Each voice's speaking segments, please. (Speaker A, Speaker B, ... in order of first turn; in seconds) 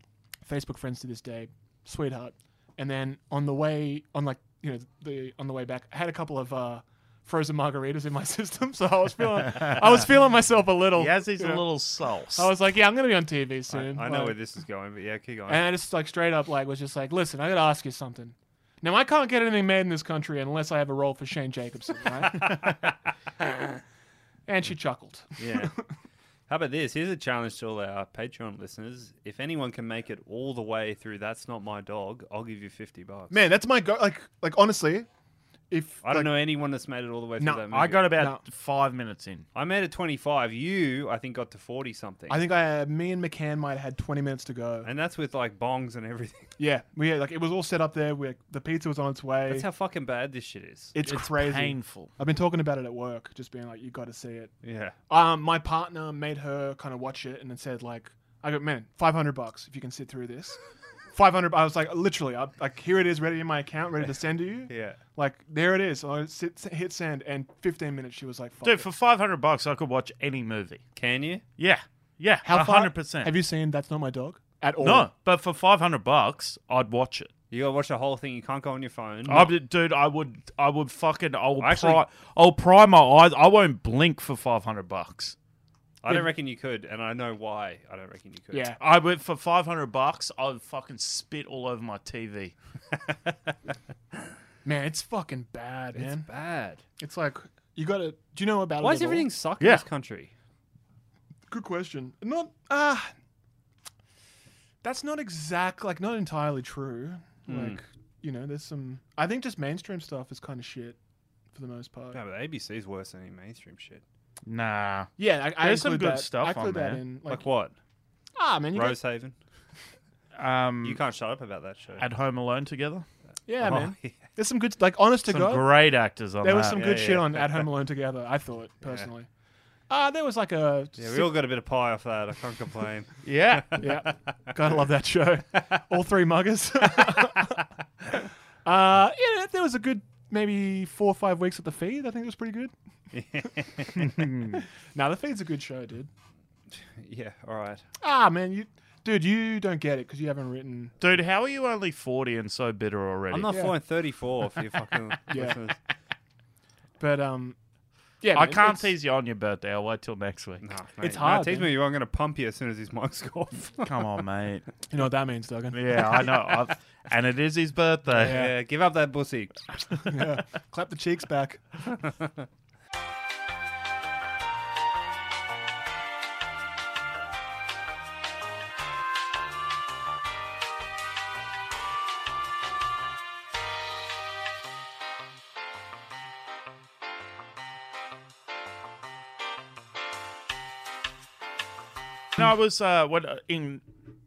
Speaker A: 0.4-11.7, 12.3-14.4, 15.5-22.7, 24.5-25.7, 33.3-35.1, 35.7-36.3, 37.4-38.4, 42.3-44.9, 46.6-49.6, 50.9-54.5, 55.1-60.6, 61.1-68.9, 72.4-75.1, 88.5-88.8, 94.6-96.3, 97.0-99.2, 101.5-103.1, 104.8-111.0, 111.5-112.2, 115.2-117.5, 118.4-119.0, 123.5-125.7, 126.4-129.3, 129.9-131.4, 133.8-137.6, 138.6-142.7, 144.9-146.1, 148.0-150.9, 153.5-153.8, 155.3-155.6, 157.0-157.6, 158.2-158.9, 161.0-161.7, 164.9-166.3, 168.2-168.6, 170.1-171.6
Speaker B: 10.9-12.5, 37.7-39.5, 51.0-52.1, 68.6-70.8, 71.6-73.3, 74.8-77.3, 79.3-85.4, 88.8-92.5, 114.5-117.0, 120.3-121.0, 122.0-123.0, 125.3-126.8, 133.2-133.9, 144.1-144.6, 151.0-153.5, 158.3-160.6, 163.8-164.7, 165.7-168.4, 192.4-193.8
Speaker C: 13.7-15.7, 22.4-22.7, 25.4-25.8, 26.5-33.4, 36.0-38.1, 39.5-42.4, 44.8-46.5, 49.5-50.9, 54.6-55.0, 64.7-65.0, 71.0-71.4, 77.5-79.5, 81.6-82.0, 86.0-88.8, 95.9-96.8, 98.8-100.3, 107.5-107.8, 112.1-114.0, 117.3-117.7, 118.7-119.3, 120.8-122.1, 123.6-124.2, 126.7-127.7, 131.0-133.9, 143.1-144.1, 146.7-147.8, 153.3-155.8, 160.6-163.9, 168.2-169.6, 172.0-172.4